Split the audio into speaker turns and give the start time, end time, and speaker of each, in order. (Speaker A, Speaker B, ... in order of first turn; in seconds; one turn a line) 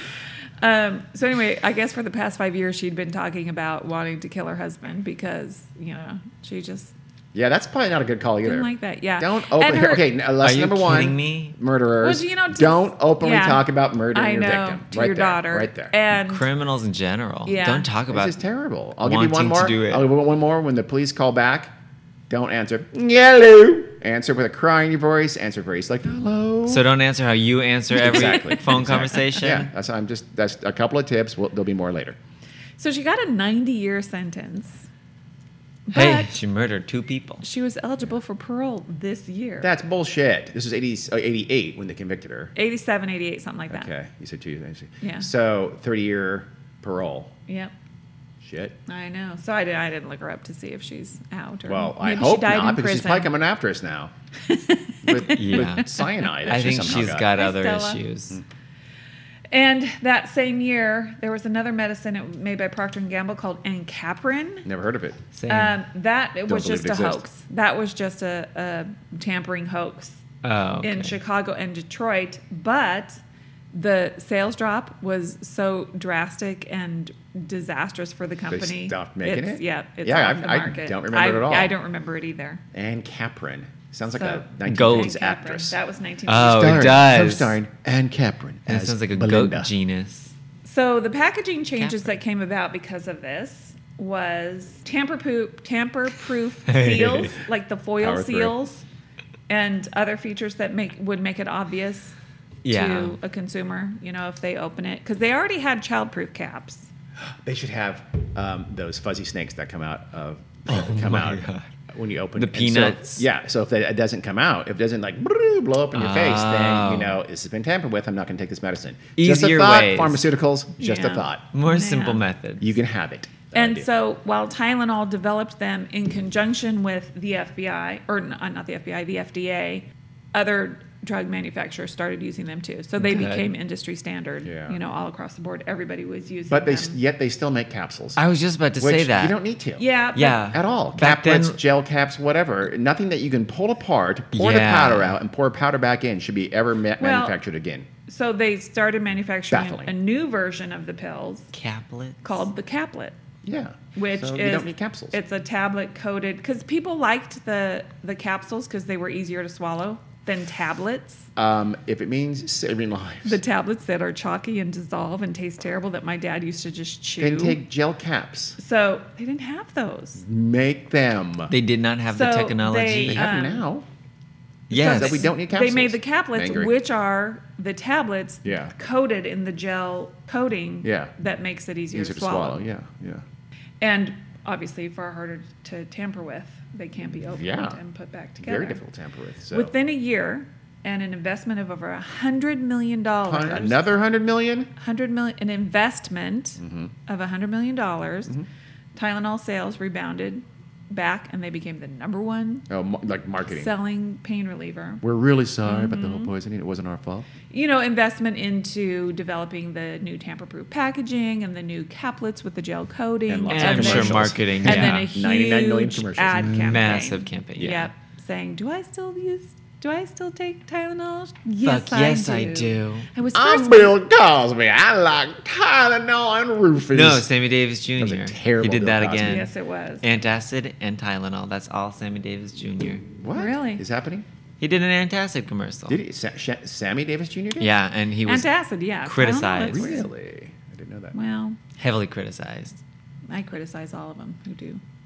Speaker A: 0.6-6.9
Speaker B: 7.3-15.9
Speaker A: 8.4-10.1
Speaker C: 10.4-11.6
Speaker A: 12.0-16.5
Speaker C: 16.1-18.4
Speaker A: 17.5-17.9
Speaker B: 18.1-21.7
Speaker C: 19.0-20.1
Speaker B: 22.3-26.9
Speaker C: 26.7-29.7
Speaker B: 27.9-32.2
Speaker A: 32.8-34.9
Speaker A: 35.9-36.3
Speaker C: 35.9-37.4
Speaker A: 37.4-39.7
Speaker B: 39.6-42.5
Speaker A: 42.6-43.9
Speaker B: 43.7-47.3
Speaker A: 45.0-45.3
Speaker A: 47.5-47.7
Speaker B: 48.4-48.8
Speaker A: 48.9-53.3
Speaker B: 51.7-54.1
Speaker A: 54.5-55.9
Speaker B: 55.0-57.3
Speaker C: 55.4-58.4
Speaker A: 56.6-58.0
Speaker A: 59.5-64.7
Speaker B: 64.7-65.2
Speaker C: 65.3-65.8
Speaker A: 65.5-70.2
Speaker B: 66.5-67.2
Speaker C: 70.4-71.2
Speaker A: 70.8-73.2
Speaker A: 73.7-82.6
Speaker B: 78.5-81.7
Speaker B: 82.7-85.8
Speaker A: 84.1-86.8
Speaker C: 84.7-85.2
Speaker C: 86.3-87.6
Speaker B: 86.3-89.7
Speaker C: 88.7-90.3
Speaker A: 90.6-98.8
Speaker C: 91.8-92.1
Speaker C: 96.7-97.3
Speaker B: 98.0-98.6
Speaker A: 99.5-102.2
Speaker C: 102.6-103.2
Speaker A: 102.7-106.9
Speaker B: 107.4-121.5
Speaker C: 110.7-111.7
Speaker C: 112.4-113.2
Speaker C: 115.9-117.2
Speaker C: 119.2-120.2
Speaker A: 120.8-122.2
Speaker C: 121.5-122.7
Speaker B: 122.6-123.9
Speaker A: 123.5-137.0
Speaker C: 133.0-133.5
Speaker B: 134.4-134.8
Speaker B: 136.5-138.2
Speaker C: 138.2-139.4
Speaker B: 138.8-139.8
Speaker A: 139.8-140.4
Speaker C: 140.2-141.6
Speaker B: 140.4-147.9
Speaker C: 144.3-145.2
Speaker A: 147.0-147.4
Speaker A: 148.1-151.5
Speaker B: 149.5-149.9
Speaker C: 151.5-152.4
Speaker A: 152.2-153.2
Speaker B: 153.4-155.2
Speaker A: 153.9-161.3
Speaker B: 161.4-163.4
Speaker A: 163.2-167.6
Speaker B: 167.2-168.6
Speaker A: 168.6-170.2
Speaker B: 170.2-171.5
Speaker C: 171.5-173.3
Speaker A: 172.1-173.7
Speaker B: 173.0-173.9
Speaker C: 174.7-175.3
Speaker A: 174.7-182.6
Speaker B: 174.8-176.7
Speaker B: 178.4-178.7
Speaker B: 180.8-181.1
Speaker B: 181.9-183.2
Speaker A: 183.8-188.8
Speaker B: 187.3-187.8
Speaker B: 188.4-189.7
Speaker A: 189.5-193.8
Speaker B: 193.2-194.7
Speaker A: 194.8-198.3
Speaker B: 196.6-196.9
Speaker A: 199.0-202.7
Speaker B: 202.7-203.7
Speaker A: 203.5-205.0
Speaker B: 205.0-207.3
Speaker A: 205.7-206.3
Speaker A: 207.5-224.0
Speaker B: 213.3-217.0
Speaker C: 213.5-215.1
Speaker C: 216.5-217.9
Speaker B: 217.6-217.9
Speaker C: 221.6-223.1
Speaker B: 223.3-227.3
Speaker C: 226.9-229.5
Speaker B: 228.0-229.5
Speaker A: 229.2-230.1
Speaker C: 230.0-233.1
Speaker B: 233.2-234.3
Speaker A: 233.3-233.8
Speaker C: 234.6-236.0
Speaker B: 235.9-237.7
Speaker C: 237.6-238.5
Speaker A: 238.2-240.1
Speaker C: 239.0-240.0
Speaker B: 239.7-241.2
Speaker A: 241.1-241.6
Speaker C: 241.8-242.8
Speaker A: 243.3-244.8